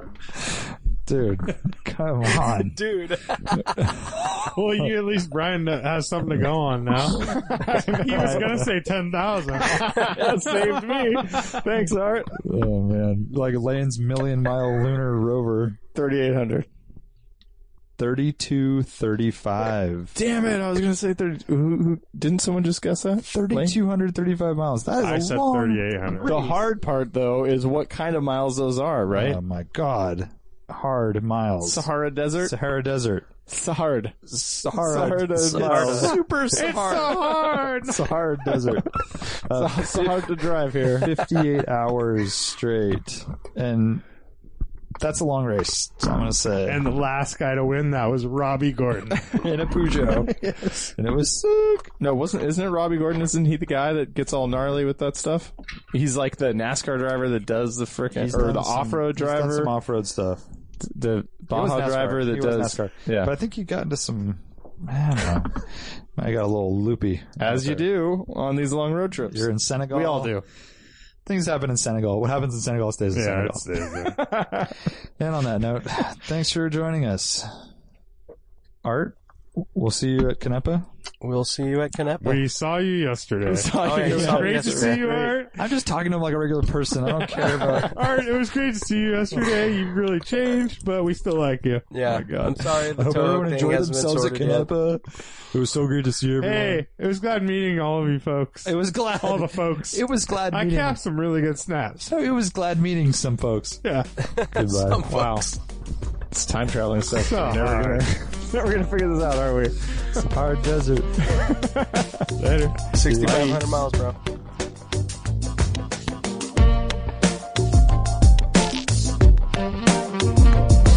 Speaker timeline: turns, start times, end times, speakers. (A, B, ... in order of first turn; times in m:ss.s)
0:00.4-0:02.8 A
0:02.6-0:03.9 B
0:03.6-0:04.5 A
0:04.4-0:11.6 C
0:07.2-0:07.5 A
0:07.4-0:08.4 D
0:08.1-0:08.7 A
0:09.6-0:12.4 D
0:12.4-0:15.8 A
0:15.9-0:16.7 D
0:18.0-0:20.2 A
0:20.2-0:23.8 D
0:23.2-0:25.9 A
0:25.0-0:26.3 C
0:26.2-0:26.6 B
0:26.2-0:29.4 D
0:29.1-0:33.3 A
0:31.6-0:32.5 D
0:33.4-0:34.2 D
0:34.3-0:40.3 A
0:34.7-0:38.7 D
0:35.5-0:36.2 B
0:36.5-0:37.5 C
0:39.5-0:41.2 D
0:41.0-0:44.0 A
0:45.0-0:46.9 A
0:46.6-0:49.4 C
0:49.4-0:50.4 A
0:50.2-0:50.9 D
0:51.0-0:51.9 A
0:52.0-0:59.7 D
0:58.1-1:00.4 A
1:00.8-1:03.3 D
1:01.5-1:07.9 A
1:07.4-1:10.4 D
1:09.3-1:10.3 A
1:11.2-1:13.7 A
1:13.1-1:14.2 C
1:14.0-1:14.8 D
1:15.2-1:17.5 A
1:18.8-1:20.9 A
1:21.2-1:22.4 B
1:22.2-1:25.6 C
1:23.4-1:25.4 D
1:23.8-1:25.1 B
1:24.0-1:24.8 A
1:25.5-1:28.0 A
1:27.4-1:27.9 D
1:27.9-1:31.9 C
1:31.9-1:34.7 B
1:32.1-1:36.8 A
1:36.4-1:42.1 C
1:38.6-1:41.0 A
1:42.0-1:43.8 A
1:44.2-1:45.6 B
1:44.4-1:45.1 A
1:45.1-1:45.4 C
1:46.3-1:50.0 D
1:47.2-1:48.0 C
1:50.1-1:51.3 A
1:51.4-1:52.3 D
1:52.4-1:53.6 C
1:52.9-1:54.2 B
1:53.0-1:53.6 A